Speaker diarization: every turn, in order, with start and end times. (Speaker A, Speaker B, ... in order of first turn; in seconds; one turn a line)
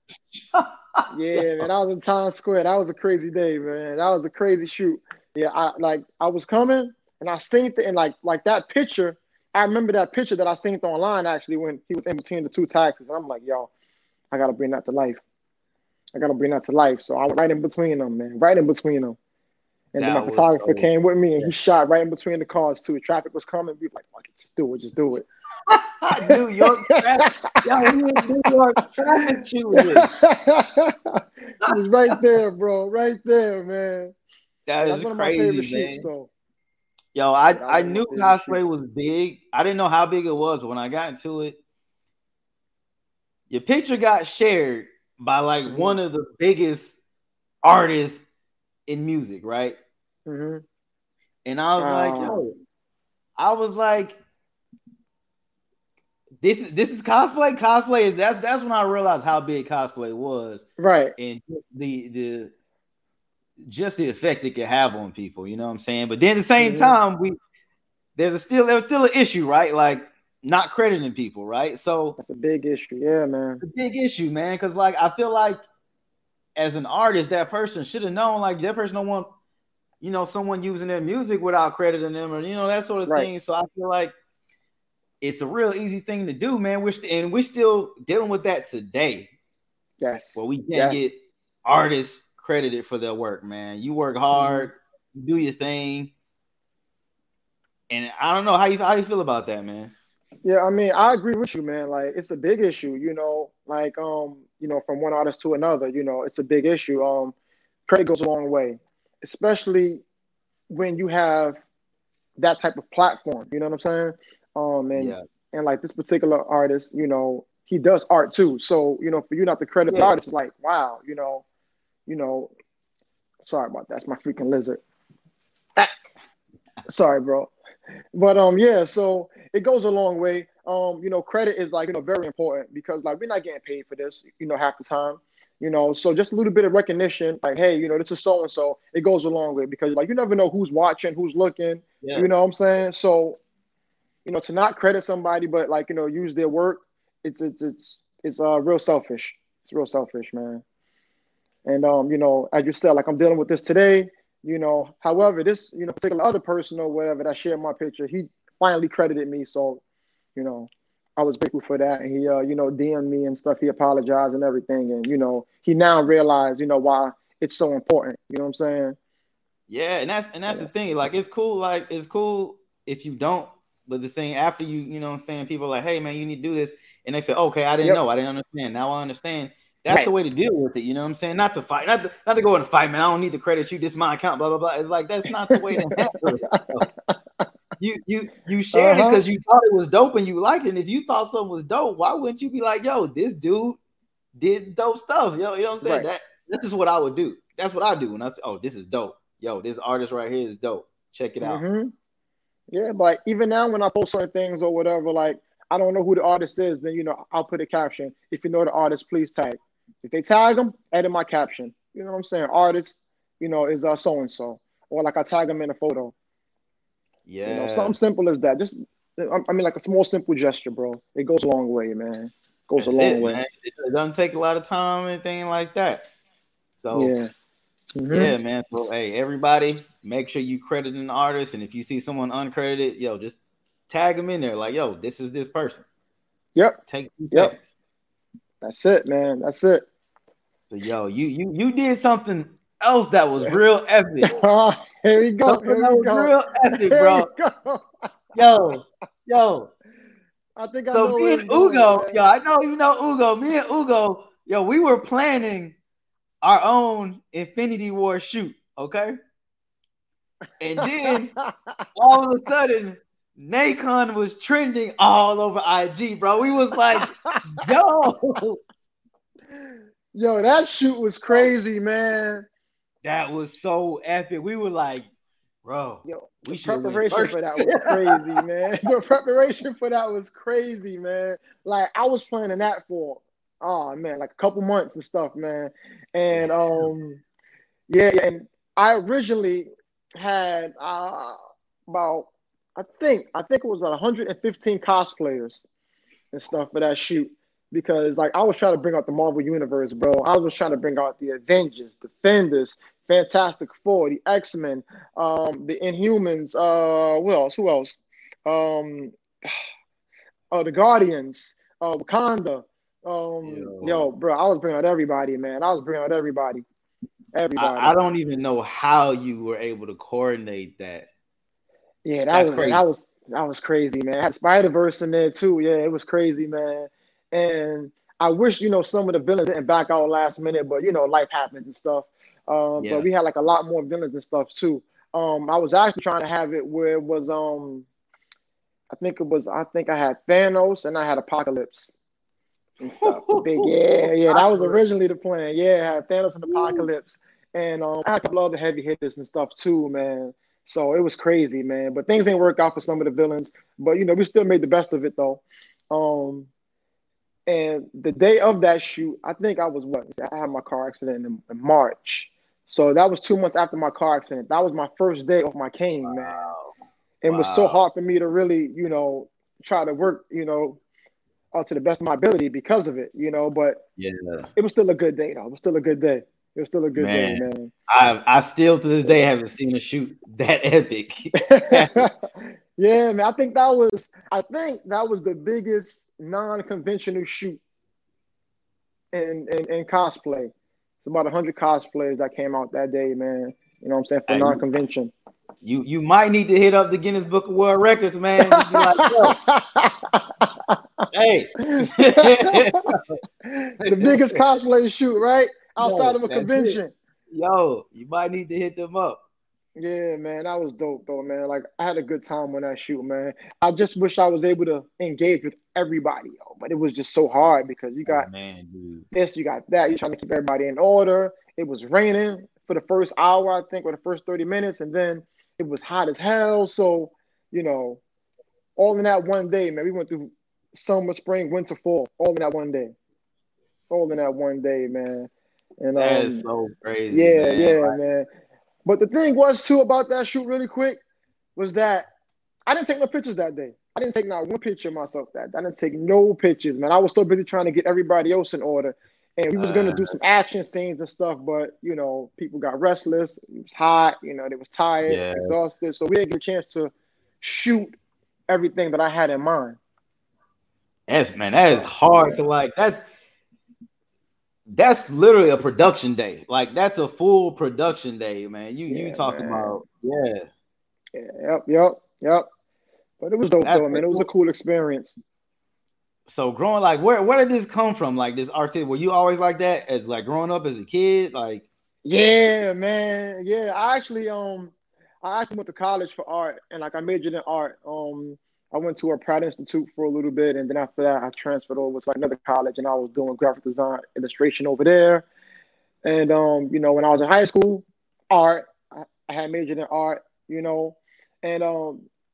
Speaker A: 0.3-1.6
Speaker B: 1.1-13.7
Speaker B: 14.3-15.2
Speaker B: 16.1-19.2
Speaker B: 19.9-25.2
Speaker A: 20.0-21.5
Speaker A: 25.7-30.1
Speaker B: 26.3-27.6
Speaker B: 29.7-34.1
Speaker A: 31.6-32.2
Speaker A: 34.7-36.1
Speaker B: 34.8-36.3
Speaker A: 37.1-41.6
Speaker B: 37.5-38.6
Speaker A: 43.5-47.0
Speaker B: 45.7-46.0
Speaker A: 47.6-48.2
Speaker A: 48.9-49.8
Speaker B: 50.2-50.6
Speaker A: 51.5-52.6
Speaker B: 51.8-52.4
Speaker A: 53.4-54.2
Speaker A: 56.4-62.5
Speaker B: 60.8-61.1
Speaker A: 63.7-67.3
Speaker B: 66.6-67.0
Speaker A: 68.2-72.2
Speaker B: 72.2-73.6
Speaker A: 73.6-75.6
Speaker A: 76.5-79.3
Speaker A: 80.0-84.1
Speaker A: 85.2-89.3
Speaker B: 90.0-91.1
Speaker A: 90.3-96.1
Speaker B: 94.3-94.7
Speaker A: 97.9-99.9
Speaker B: 100.4-107.3
Speaker B: 107.9-110.0
Speaker B: 110.7-111.6
Speaker B: 112.4-121.4
Speaker A: 115.0-115.2
Speaker A: 119.9-120.1
Speaker B: 122.1-122.5
Speaker B: 123.4-124.8
Speaker B: 126.9-127.5
Speaker B: 128.1-143.4
Speaker A: 142.0-142.3
Speaker B: 144.2-150.6
Speaker B: 151.7-159.8
Speaker B: 160.3-169.0
Speaker A: 169.7-186.8
Speaker B: 185.5-185.9
Speaker B: 186.5-187.4
Speaker A: 187.8-193.8
Speaker B: 188.7-189.2
Speaker A: 194.4-201.6
Speaker B: 195.8-196.1
Speaker B: 201.4-201.9
Speaker B: 202.7-216.1
Speaker A: 217.2-217.9
Speaker B: 217.4-223.4
Speaker A: 222.8-226.1
Speaker A: 226.8-227.1
Speaker B: 226.9-227.3
Speaker B: 227.9-228.3
Speaker A: 228.1-235.8
Speaker A: 236.9-237.7
Speaker B: 238.6-239.8
Speaker A: 240.7-244.3
Speaker B: 244.3-248.1
Speaker A: 245.4-247.3
Speaker A: 248.3-249.7
Speaker B: 250.6-252.2
Speaker A: 250.8-255.8
Speaker A: 256.4-259.2
Speaker A: 260.6-261.3
Speaker B: 260.8-261.8
Speaker A: 261.9-268.6
Speaker B: 267.0-267.3
Speaker B: 269.5-272.5
Speaker A: 273.0-275.1
Speaker A: 275.6-278.4
Speaker B: 276.0-287.2
Speaker A: 286.3-286.9
Speaker B: 287.9-295.6
Speaker B: 296.3-309.6
Speaker B: 310.5-316.6
Speaker A: 313.4-314.1
Speaker B: 317.3-317.9
Speaker A: 317.6-321.1
Speaker B: 322.0-337.9
Speaker A: 322.3-322.8
Speaker A: 332.8-333.1
Speaker B: 338.9-341.9
Speaker B: 342.8-356.5
Speaker A: 343.0-344.8
Speaker A: 346.5-346.9
Speaker B: 357.5-366.5
Speaker A: 366.0-366.7
Speaker B: 367.2-370.8
Speaker A: 367.2-367.8
Speaker B: 371.5-373.8
Speaker A: 374.0-374.5
Speaker B: 374.6-377.7
Speaker A: 376.9-382.1
Speaker B: 381.4-387.6
Speaker B: 389.1-390.5
Speaker B: 391.0-395.1
Speaker A: 394.3-394.6
Speaker A: 395.6-399.4
Speaker B: 398.5-400.8
Speaker A: 401.1-403.2
Speaker B: 401.6-402.7
Speaker B: 403.4-406.9
Speaker A: 403.8-404.4
Speaker A: 405.8-409.2
Speaker B: 409.8-418.3
Speaker A: 418.1-419.1
Speaker B: 419.1-428.0
Speaker B: 428.8-432.9
Speaker B: 433.9-435.3
Speaker B: 435.8-436.4
Speaker A: 435.9-438.0
Speaker B: 437.1-438.2
Speaker B: 438.8-441.0
Speaker B: 441.6-442.1
Speaker B: 442.7-457.9
Speaker A: 449.5-450.1
Speaker A: 455.0-455.5
Speaker B: 458.5-459.8
Speaker A: 461.1-463.0
Speaker B: 461.7-462.4
Speaker A: 464.7-470.5
Speaker B: 468.9-469.8
Speaker B: 471.1-472.4
Speaker B: 473.2-475.2
Speaker A: 473.6-474.3
Speaker A: 476.3-481.6
Speaker B: 482.0-495.2
Speaker B: 496.0-502.0